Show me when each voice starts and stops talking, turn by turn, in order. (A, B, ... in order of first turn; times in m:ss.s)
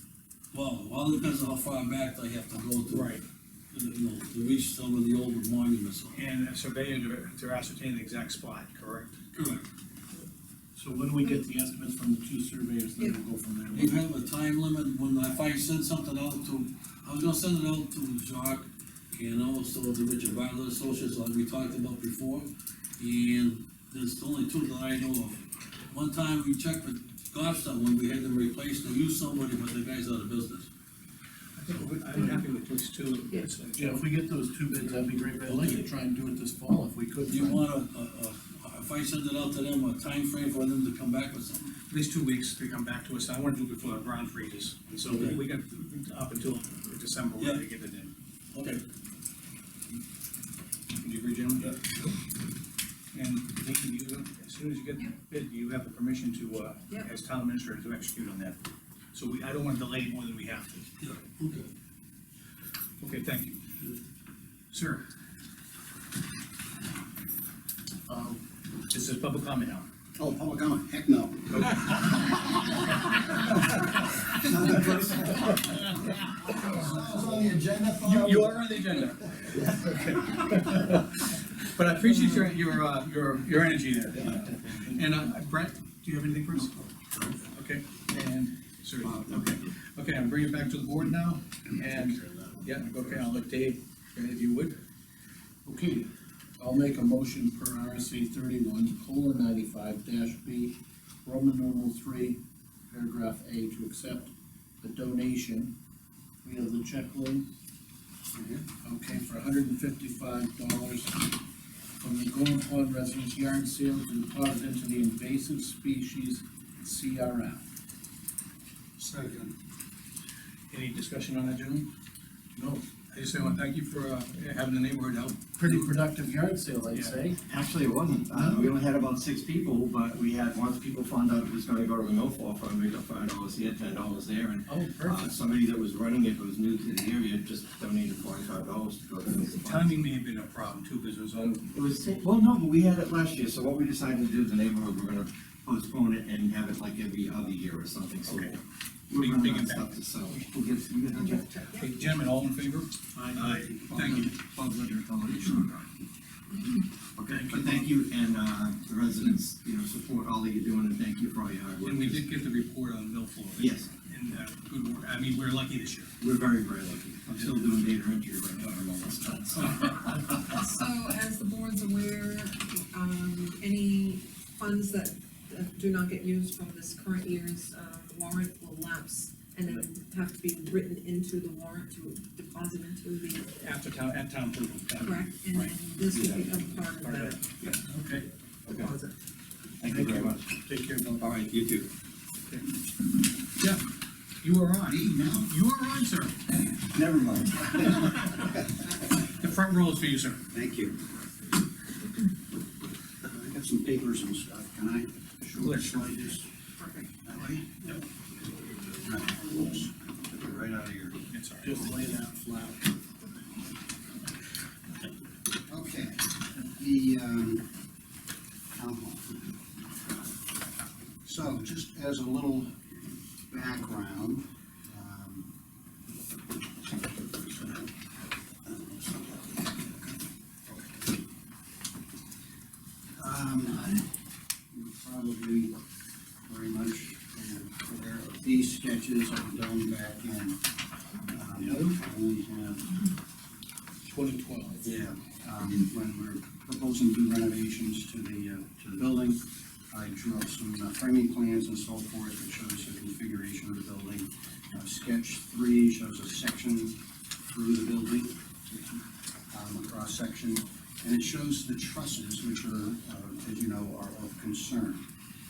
0:00.5-0:03.2 A
0:02.9-0:03.2 B
0:03.7-0:06.2 A
0:06.2-0:09.2 B
0:09.4-0:09.7 A
0:10.8-0:14.0 C
0:13.7-0:30.7 A
0:31.6-0:34.0 B
0:31.7-0:32.0 A
0:33.7-0:37.6 C
0:35.4-0:35.9 A
0:37.2-0:41.8 A
0:41.9-0:48.1 B
0:45.1-0:45.4 A
0:47.4-0:47.7 A
0:48.5-0:48.8 A
0:51.0-0:51.8 B
0:53.1-0:58.6 B
0:59.1-1:00.9 B
1:01.0-1:01.7 A
1:03.0-1:03.6 B
1:04.7-1:05.0 B
1:08.1-1:08.4 C
1:08.9-1:09.9 B
1:10.2-1:18.4 D
1:18.0-1:26.9 B
1:27.5-1:34.8 B
1:35.6-1:36.1 C
1:36.6-1:42.4 C
1:42.9-1:44.3 C
1:44.8-1:45.7 C
1:46.4-1:47.4 C
1:48.4-1:48.6 D
1:48.8-1:51.2 C
1:52.0-1:57.6 C
1:59.0-1:59.5 C
2:00.7-2:01.9 B
2:02.6-2:02.8 C
2:03.1-2:06.0 B
2:05.6-2:07.4 C
2:06.9-2:07.2 B
2:07.5-2:20.0 E
2:08.3-2:08.7 C
2:14.7-2:15.3 C
2:19.5-2:21.7 B
2:21.7-2:31.5 E
2:28.3-2:28.6 B
2:29.1-2:30.4 B
2:31.1-2:32.2 F
2:31.8-2:34.4 B
2:34.0-2:35.7 E
2:37.2-2:42.2 E
2:41.8-2:46.1 B
2:43.6-2:43.9 E
2:46.2-2:50.5 E
2:50.4-3:03.5 F
3:03.5-3:05.7 B
3:05.0-3:07.4 F
3:06.1-3:06.7 E
3:07.0-3:07.4 B
3:07.9-3:08.3 C
3:08.7-3:08.9 E
3:09.8-3:10.6 E
3:09.9-3:11.2 C
3:11.2-3:11.9 E
3:14.4-3:16.7 B
3:14.8-3:15.5 D
3:17.0-3:18.7 D
3:17.0-3:17.6 E
3:18.0-3:18.5 B
3:19.2-3:20.4 B
3:20.5-3:21.0 D
3:23.2-3:26.5 D
3:25.6-3:26.0 B
3:27.2-3:28.0 D
3:28.8-3:31.2 D
3:31.3-3:31.8 B
3:31.6-3:32.9 C
3:35.7-3:37.7 D
3:38.8-3:39.6 D
3:41.2-3:42.7 D
3:43.5-3:45.5 D
3:47.4-3:47.9 D
3:48.6-3:51.2 D
3:53.2-3:54.1 D
3:54.7-3:55.8 D
3:56.5-4:00.6 D
4:01.3-4:03.1 D
4:01.6-4:01.9 C
4:04.1-4:04.8 C
4:04.8-4:17.0 D
4:17.5-4:25.0 D